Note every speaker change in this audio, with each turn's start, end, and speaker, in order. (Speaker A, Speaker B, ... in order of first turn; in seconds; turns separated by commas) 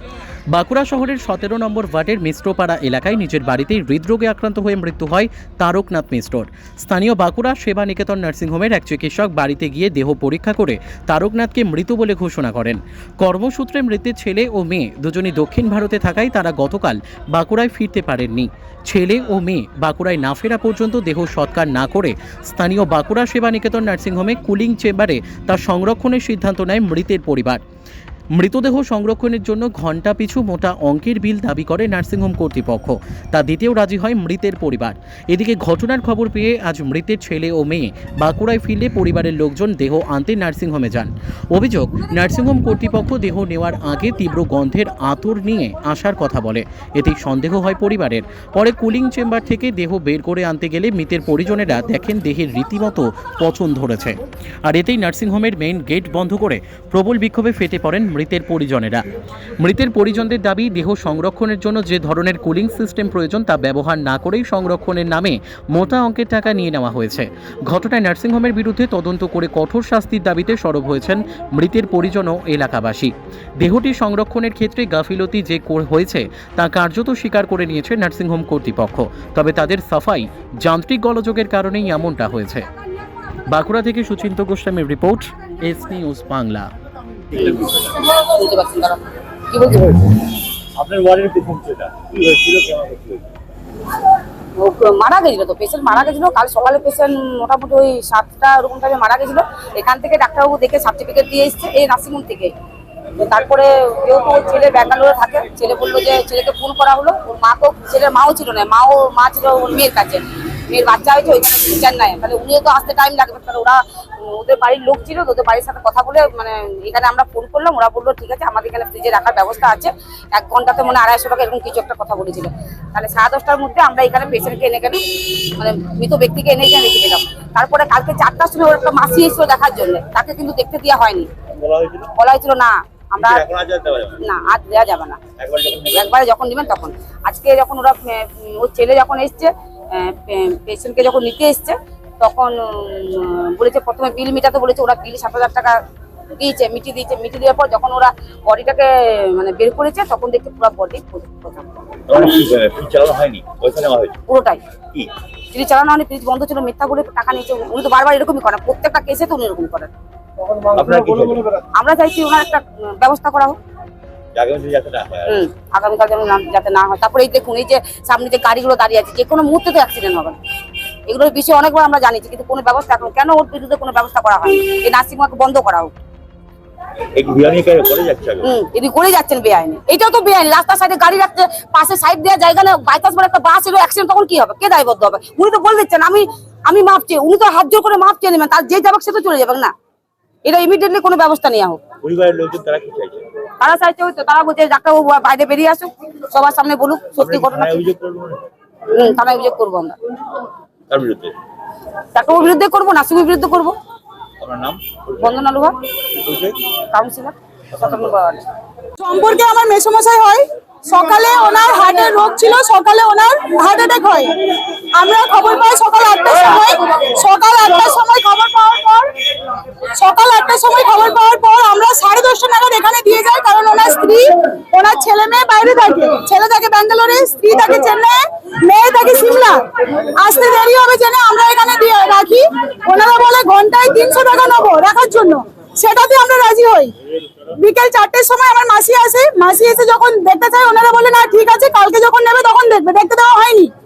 Speaker A: 0.5-27.6, Speaker A: 28.3-59.0, Speaker A: 59.6-82.7, Speaker A: 83.5-86.7, Speaker B: 87.3-88.0, Speaker C: 88.0-90.1, Speaker B: 90.7-93.2, Speaker C: 94.5-102.5, Speaker C: 103.2-125.0, Speaker C: 125.5-131.3, Speaker B: 131.5-132.1, Speaker C: 132.2-133.4, Speaker B: 133.1-134.2, Speaker C: 134.2-135.2, Speaker B: 135.4-136.2, Speaker C: 135.9-145.8, Speaker C: 146.3-151.7, Speaker B: 152.1-154.2, Speaker C: 154.3-154.6, Speaker C: 155.5-159.9, Speaker B: 160.7-161.5, Speaker C: 161.8-163.6, Speaker B: 164.3-165.4, Speaker C: 165.2-170.4, Speaker C: 171.1-175.9, Speaker B: 177.1-178.5, Speaker C: 178.4-189.7, Speaker C: 190.4-191.8, Speaker B: 192.0-193.2, Speaker C: 193.6-197.8, Speaker B: 197.2-198.4, Speaker C: 198.9-199.9, Speaker B: 200.9-201.3, Speaker C: 202.1-203.8, Speaker B: 204.4-205.4, Speaker C: 205.2-205.8, Speaker B: 206.2-206.6, Speaker C: 206.9-208.4, Speaker B: 207.7-208.2, Speaker D: 209.0-214.3, Speaker D: 214.9-219.1, Speaker D: 219.9-236.9, Speaker D: 237.6-243.7